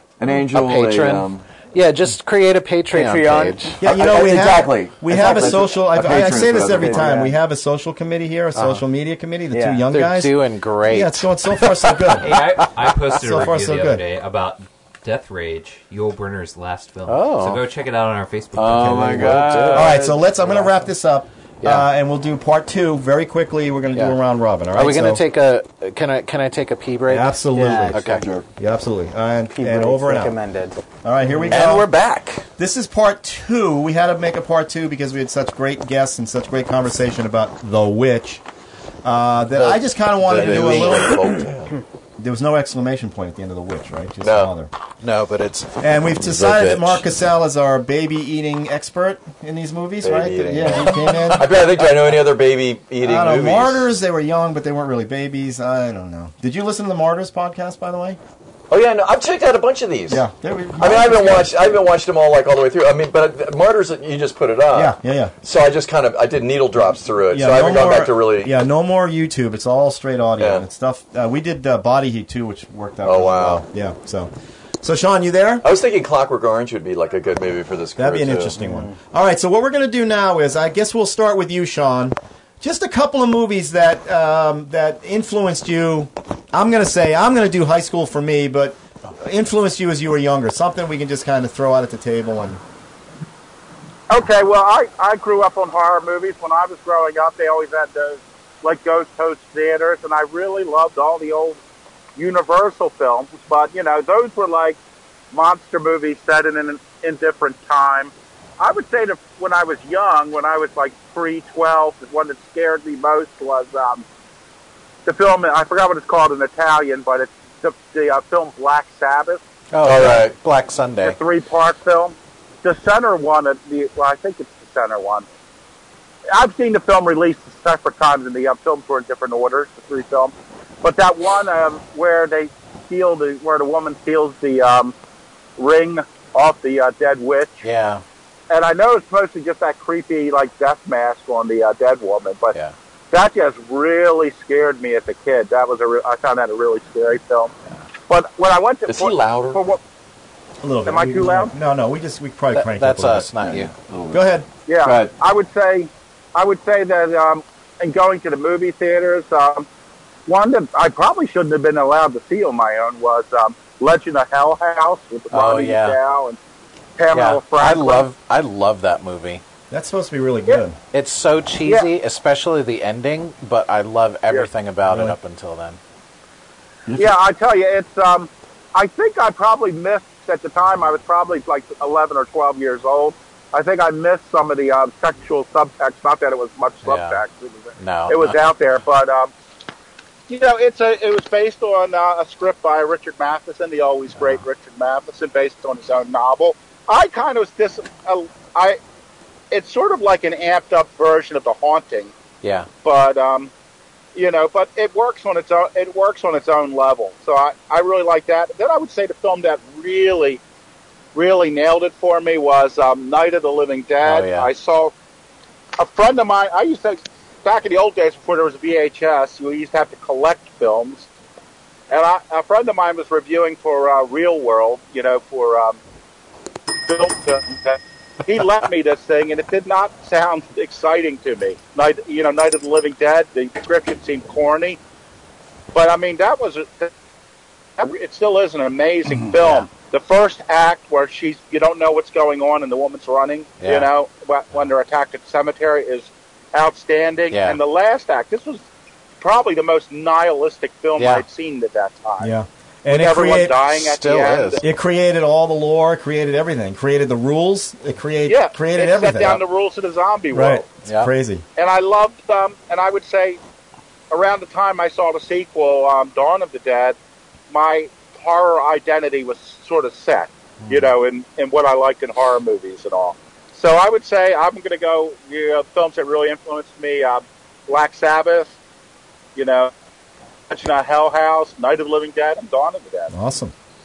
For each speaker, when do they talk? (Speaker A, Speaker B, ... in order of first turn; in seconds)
Speaker A: 0.2-1.4, 3.9-7.1, 18.5-20.2, 28.0-28.4, 31.5-32.4, 40.2-41.7, 44.2-44.5, 50.0-53.9, 58.7-60.2, 60.8-68.5, 70.4-70.6, 73.0-73.6, 75.6-78.6, 119.8-120.3, 148.9-149.6, 153.4-154.3, 154.8-155.1
Speaker B: 0.5-3.8, 8.5-8.8, 9.9-13.2, 17.1-17.7, 19.2-20.8, 21.6-21.9, 24.7-28.3, 31.5-32.3, 40.3-41.1, 45.0-47.0, 119.7-121.2, 137.6-138.0, 152.5-153.7, 165.3-166.0, 167.1-169.4, 170.9-175.8, 186.8-187.2, 187.8-188.4, 202.4-202.7, 214.0-214.5, 239.3-239.7, 243.6-243.9, 247.3-247.6, 251.0-251.2, 253.7-254.6, 260.8-261.1, 270.6-270.9
Speaker C: 2.9-3.7, 6.8-7.3, 9.5-9.8, 27.5-28.0, 29.5-30.8
Speaker D: 3.8-12.4, 13.2-14.0, 18.8-25.2, 27.1-28.0, 28.6-30.4, 31.0-31.9, 32.6-38.4, 39.0-41.4, 42.2-44.7, 45.8-51.5, 53.0-58.2, 60.1-61.6, 64.7-65.3, 67.3-75.7, 78.0-92.6, 150.6-153.3, 154.1-154.5, 169.7-170.8, 174.9-175.2, 252.2-253.6, 254.6-259.4, 260.3-261.4, 283.1-283.5
Speaker E: 12.2-19.3
Speaker F: 94.1-101.6, 102.2-104.8, 105.3-114.0, 115.0-119.4, 121.0-125.3, 126.3-134.9, 135.6-137.7, 138.5-142.6, 143.1-147.5, 148.1-149.8, 150.8-151.5, 154.7-159.7, 160.2-166.4, 167.0-168.1, 171.6-171.9, 176.9-189.3, 190.3-198.8, 199.5-202.1, 202.8-203.5, 204.1-210.4, 211.1-214.9, 215.8-221.1, 221.9-225.8, 226.9-234.8, 235.7-236.9, 237.8-248.7, 249.2-252.3, 252.9-254.6, 258.3-260.7, 261.6-263.4, 264.1-267.0, 267.5-278.5, 279.4-279.7, 280.5-283.1